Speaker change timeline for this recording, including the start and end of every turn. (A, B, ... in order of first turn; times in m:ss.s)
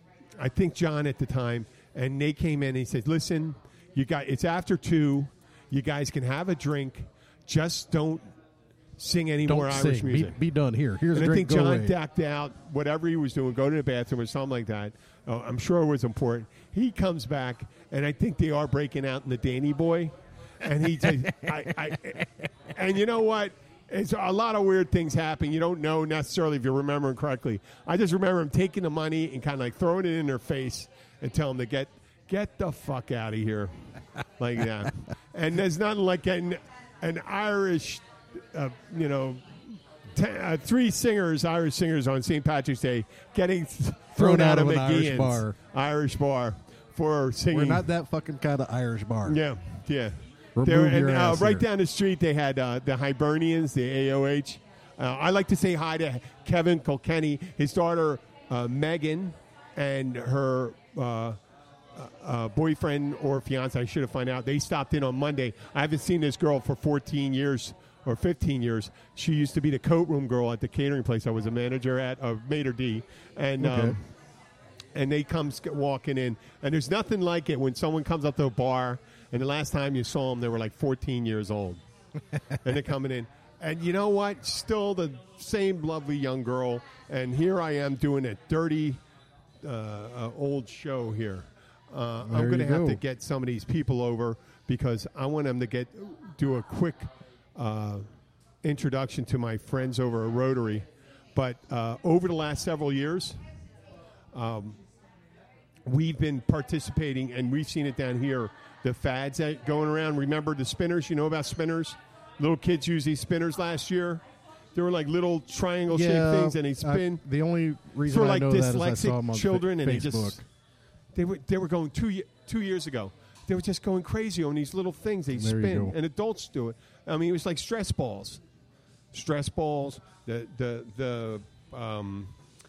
0:00.4-0:08.3 A
0:09.0-0:10.4 A
0:09.5-0:12.0 B
0:11.1-0:33.7 A
0:34.4-0:39.4 A
0:40.1-0:47.8 A
0:44.2-0:45.5 B
0:47.5-0:49.4 B
0:49.2-1:01.4 A
0:50.6-0:51.6 B
1:01.9-1:14.0 A
1:13.6-1:14.0 B
1:14.9-1:21.8 A
1:22.6-1:29.0 A
1:29.6-1:38.0 A
1:32.2-1:33.0 B
1:38.6-1:43.4 A
1:44.3-1:44.8 A
1:45.8-1:54.2 A
1:54.7-1:57.2 A
1:55.9-2:00.4 B
1:58.1-2:00.4 A
2:01.1-2:08.4 A
2:05.3-2:06.0 B
2:09.1-2:12.3 A